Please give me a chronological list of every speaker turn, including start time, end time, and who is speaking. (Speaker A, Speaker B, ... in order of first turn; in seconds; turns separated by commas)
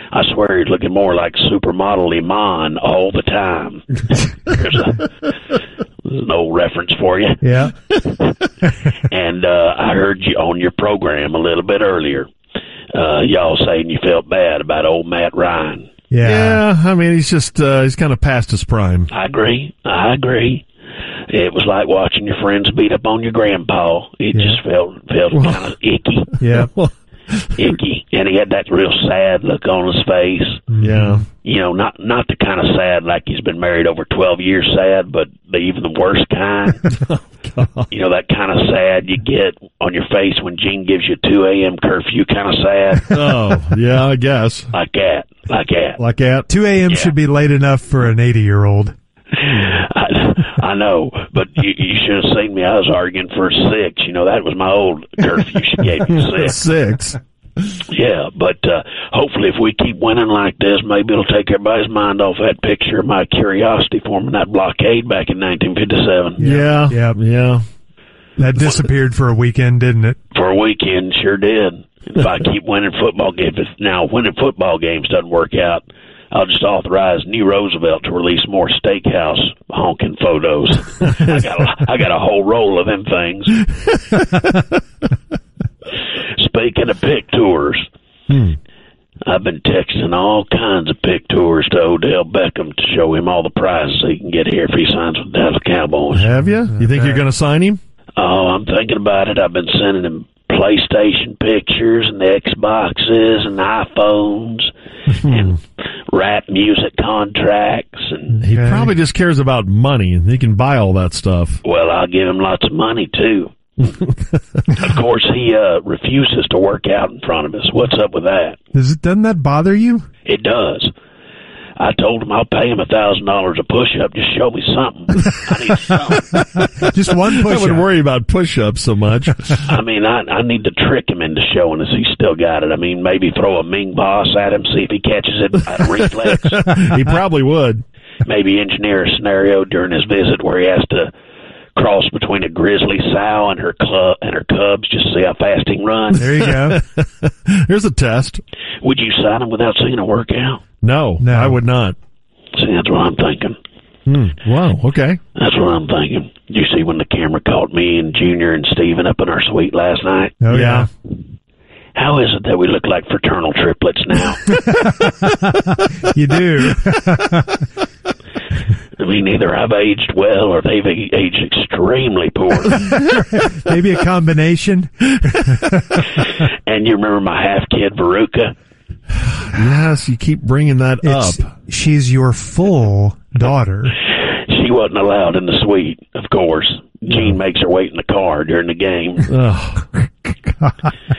Speaker A: 0.1-5.2, Speaker A: 6.0-7.4, Speaker B: 7.4-7.7, Speaker A: 8.0-8.3, Speaker A: 8.9-12.3, Speaker A: 12.9-15.9, Speaker B: 16.1-16.6, Speaker C: 16.2-19.1, Speaker A: 19.1-20.6, Speaker A: 21.3-26.3, Speaker B: 24.3-24.6, Speaker C: 25.3-25.7, Speaker B: 26.4-26.7, Speaker C: 26.6-27.8, Speaker A: 27.6-30.7, Speaker B: 30.7-31.2, Speaker C: 30.8-31.2, Speaker A: 31.4-36.9, Speaker C: 36.9-37.9, Speaker A: 37.9-43.4, Speaker C: 43.1-44.7, Speaker A: 44.7-46.0, Speaker C: 46.0-46.5, Speaker B: 46.5-48.9, Speaker A: 46.9-47.1, Speaker A: 49.3-56.6, Speaker C: 56.1-57.2, Speaker A: 57.9-66.4, Speaker B: 66.4-67.2, Speaker C: 66.4-67.6, Speaker B: 68.4-70.2, Speaker A: 70.3-83.7, Speaker A: 86.3-87.8, Speaker C: 88.3-88.6, Speaker A: 89.2-96.3, Speaker C: 96.1-97.8, Speaker B: 96.8-97.2, Speaker A: 98.2-104.7, Speaker C: 105.2-105.5, Speaker A: 105.2-108.4, Speaker B: 108.4-108.9, Speaker C: 108.4-111.6, Speaker A: 111.6-113.5, Speaker C: 113.8-114.4, Speaker A: 114.7-118.6, Speaker B: 118.7-120.1, Speaker A: 120.2-120.9, Speaker A: 121.8-126.4, Speaker B: 126.5-127.8, Speaker C: 127.4-129.6, Speaker A: 129.6-136.7, Speaker C: 136.6-137.8, Speaker A: 138.2-141.1, Speaker A: 141.8-146.3, Speaker B: 146.2-146.8, Speaker C: 146.3-148.4, Speaker A: 148.8-150.6, Speaker C: 150.8-152.0, Speaker B: 151.2-151.6, Speaker A: 152.6-153.6, Speaker C: 154.1-155.2, Speaker A: 155.3-160.4, Speaker B: 160.4-160.9, Speaker C: 160.5-160.9, Speaker A: 161.9-164.5, Speaker B: 164.5-167.6, Speaker A: 169.0-172.9, Speaker B: 172.9-176.0, Speaker A: 176.5-178.5, Speaker C: 179.5-181.4, Speaker B: 181.0-183.9, Speaker A: 184.2-189.3, Speaker C: 189.3-190.1